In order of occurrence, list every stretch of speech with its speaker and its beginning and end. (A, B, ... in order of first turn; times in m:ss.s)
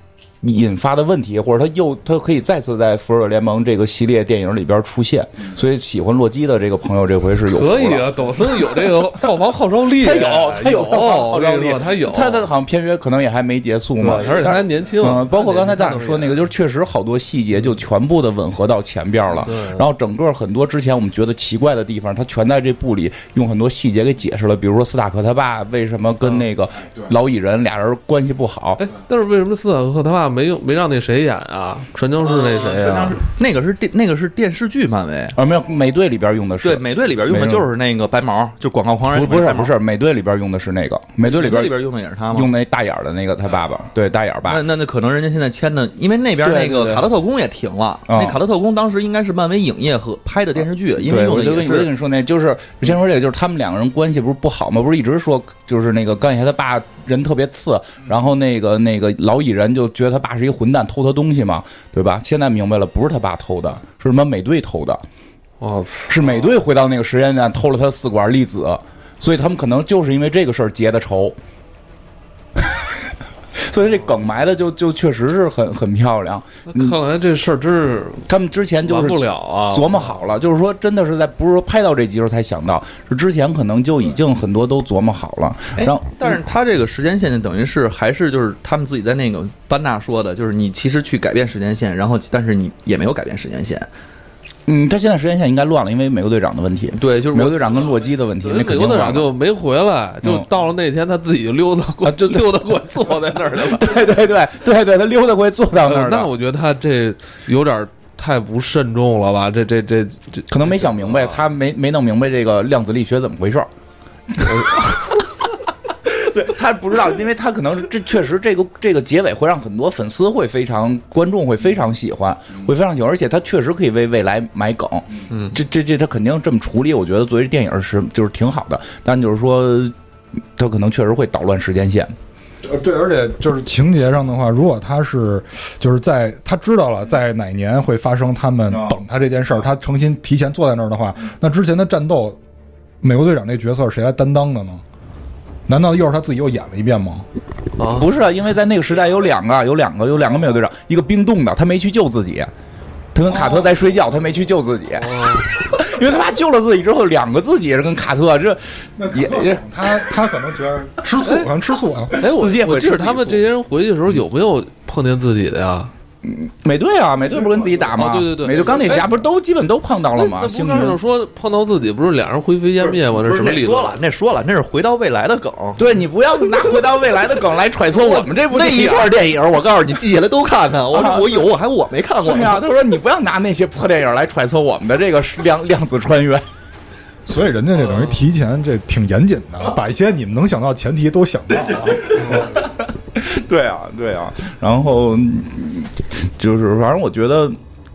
0:00.4-0:08.1 A
0:07.5-0:12.5 B
0:09.9-0:28.8 A
0:14.0-0:16.4 B
0:19.4-0:19.8 B
0:28.8-0:33.2 B
0:32.2-0:35.4 C
0:35.3-0:37.7 A
0:36.6-0:39.8 C
0:39.1-0:41.8 A
0:41.2-0:42.5 C
0:42.3-0:44.6 A
0:44.4-0:51.9 C
0:46.4-0:47.1 A
0:48.1-0:48.4 A
0:51.0-1:05.0 A
1:05.6-1:06.2 B
1:06.1-1:11.4 A
1:12.6-1:12.9 A
1:13.6-1:17.0 A
1:16.7-1:18.2 B
1:18.2-1:26.4 A
1:18.8-1:20.2 B
1:25.8-1:33.9 C
1:34.7-1:39.3 A
1:36.9-1:38.0 C
1:38.4-1:44.0 B
1:42.0-1:42.6 A
1:43.5-1:46.3 A
1:45.8-1:51.4 B
1:50.5-1:53.7 A
1:54.3-1:55.3 A
1:56.0-2:09.9 A
2:05.3-2:05.5 C
2:10.6-2:12.1 A
2:12.6-2:22.4 D
2:18.7-2:18.9 A
2:23.0-2:24.8 D
2:25.7-2:27.3 D
2:27.8-2:28.1 B
2:27.8-2:32.5 A
2:33.1-2:39.6 A
2:35.0-2:35.7 B
2:39.0-2:42.2 D
2:42.2-2:45.9 B
2:42.2-2:43.4 A
2:46.2-2:51.0 A
2:47.9-2:49.1 B
2:50.1-2:54.0 B
2:52.8-2:55.8 C
2:55.8-2:59.1 A
2:56.5-2:56.8 C
2:57.9-3:02.6 C
3:00.9-3:01.4 A
3:02.2-3:06.4 A
3:07.3-3:12.5 D
3:12.0-3:17.6 A